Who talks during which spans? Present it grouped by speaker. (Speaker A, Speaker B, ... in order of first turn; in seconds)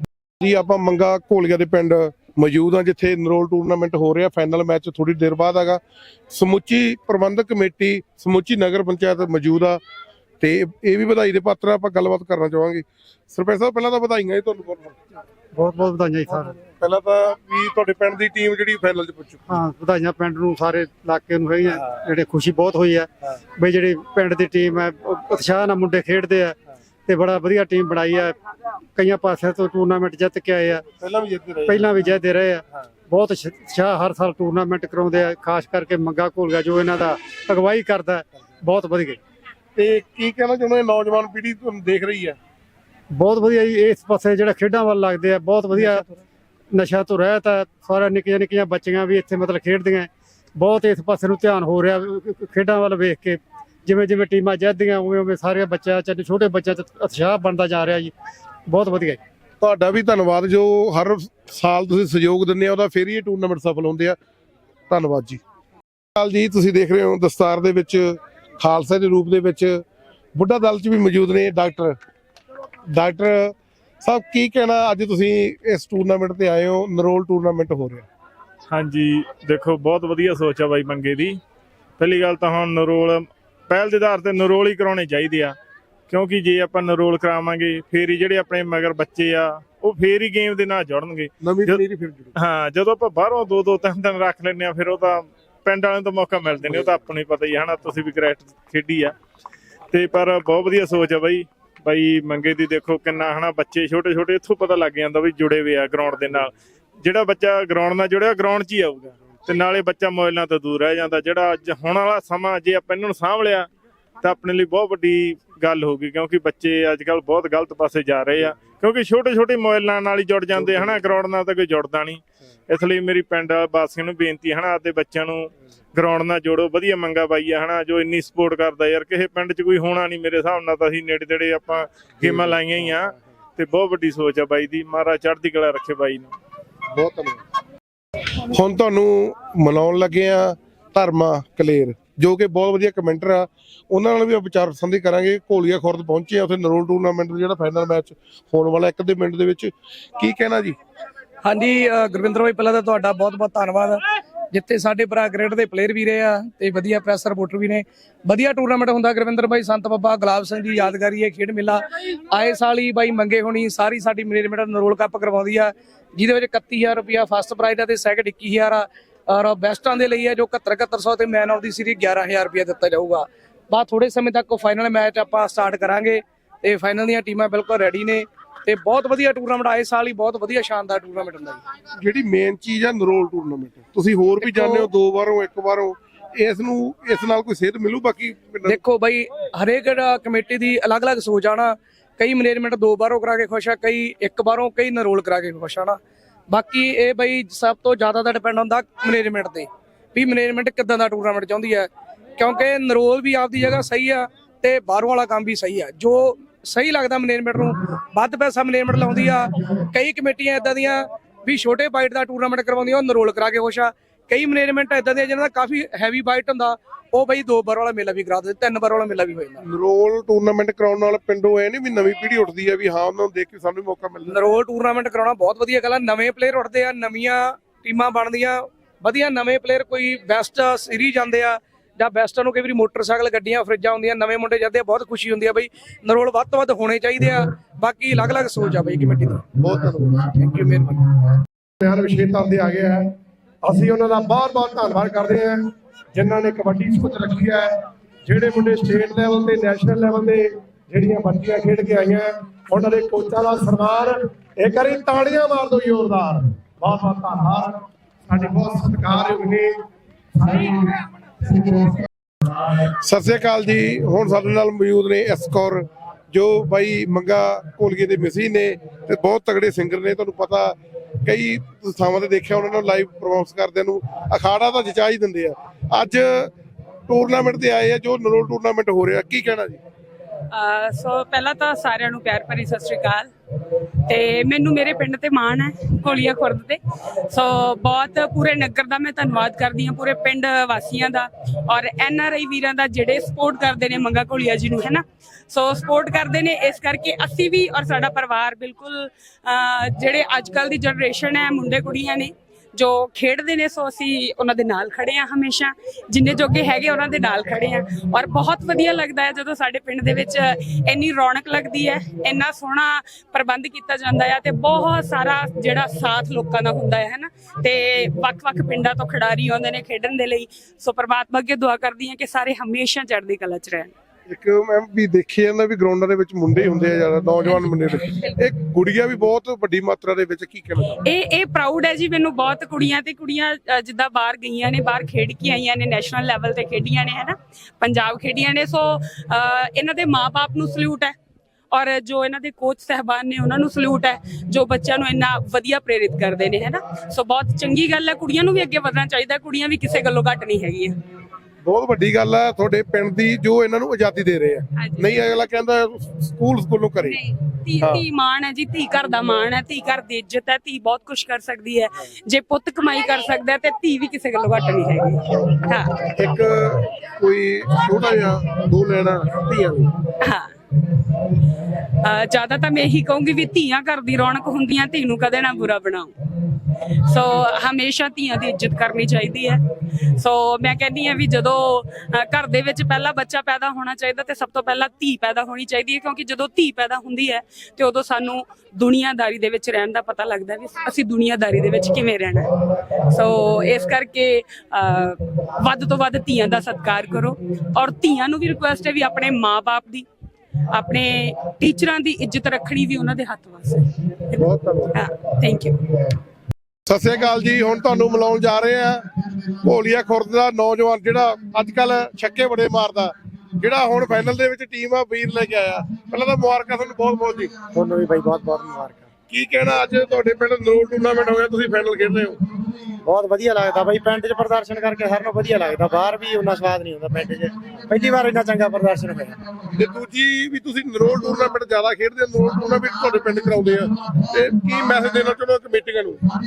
Speaker A: 0.4-5.8, 6.3-9.8, 10.4-15.0, 16.8-19.4, 31.0-32.1, 39.8-42.4, 59.6-64.2, 64.9-65.4, 66.2-69.8, 70.4-72.0, 72.9-78.1, 91.4-92.3, 136.9-137.4, 138.5-150.8, 182.0-188.8, 219.6-224.4, 239.6-240.3, 263.0-276.5, 277.1-279.8, 324.3-331.0, 351.6-357.2, 366.1-369.9, 404.4-404.9, 406.9-409.0, 409.6-417.5, 419.3-422.4, 429.8-436.2
Speaker B: 15.6-16.6, 19.5-26.6, 27.1-28.4, 28.9-30.9, 31.7-39.2, 43.1-46.0, 46.7-58.1, 58.7-59.2
Speaker C: 78.7-81.4, 82.0-85.5, 86.1-91.8, 92.4-99.1, 99.9-113.7, 114.2-136.3
Speaker D: 151.4-181.6, 184.4-184.9, 188.7-196.0, 196.5-219.6, 224.3-239.5, 240.2-241.1
Speaker E: 241.8-243.0, 243.6-245.6, 246.2-247.7, 248.3-257.8, 258.3-259.7, 260.4-260.8, 261.6-261.9
Speaker F: 280.5-283.3, 284.1-286.8, 287.3-323.9, 331.0-341.1, 341.7-350.9, 354.8-355.2, 357.0-366.1, 370.2-370.5, 371.9-376.1, 377.1-379.6, 380.2-392.5, 393.1-400.1, 400.7-404.4, 404.9-405.8
Speaker G: 417.7-419.1, 423.0-429.4